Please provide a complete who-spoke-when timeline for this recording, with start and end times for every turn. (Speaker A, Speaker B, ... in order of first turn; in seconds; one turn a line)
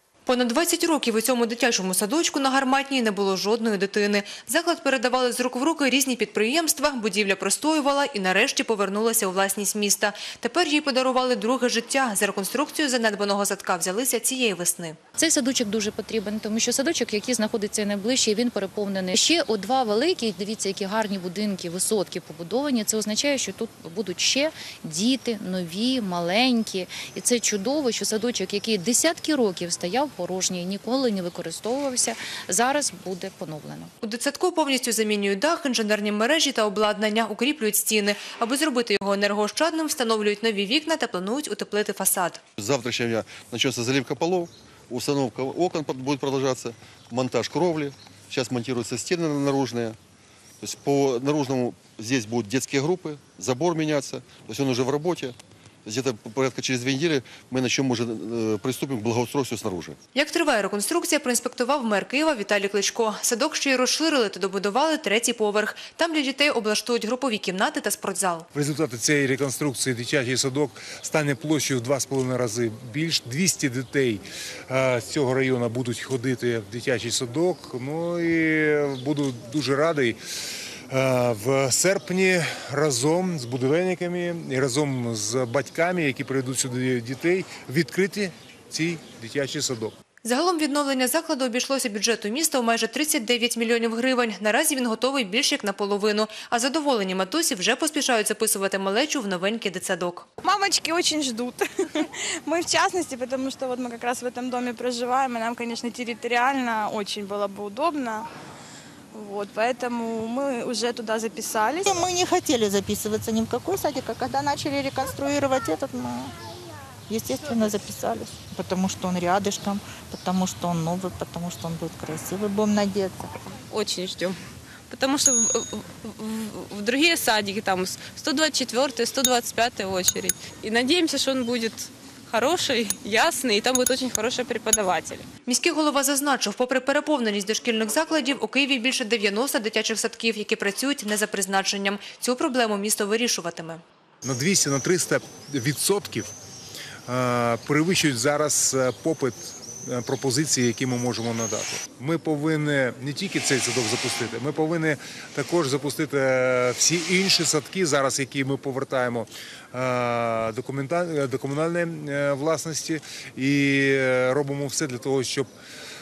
Speaker A: 0.3-15.0
Speaker B: 15.2-33.9
Speaker A: 34.0-42.4
Speaker C: 42.6-50.0
Speaker C: 50.6-60.0
Speaker A: 60.1-68.5
Speaker D: 68.5-80.2
Speaker D: 80.9-90.0
Speaker A: 90.2-100.3
Speaker E: 100.4-108.3
Speaker E: 109.1-111.9
Speaker F: 111.9-116.3
Speaker F: 117.1-123.3
Speaker G: 123.7-124.4
Speaker G: 124.9-135.2
Speaker A: 135.5-143.8
Speaker D: 144.2-146.3
Speaker D: 147.1-165.5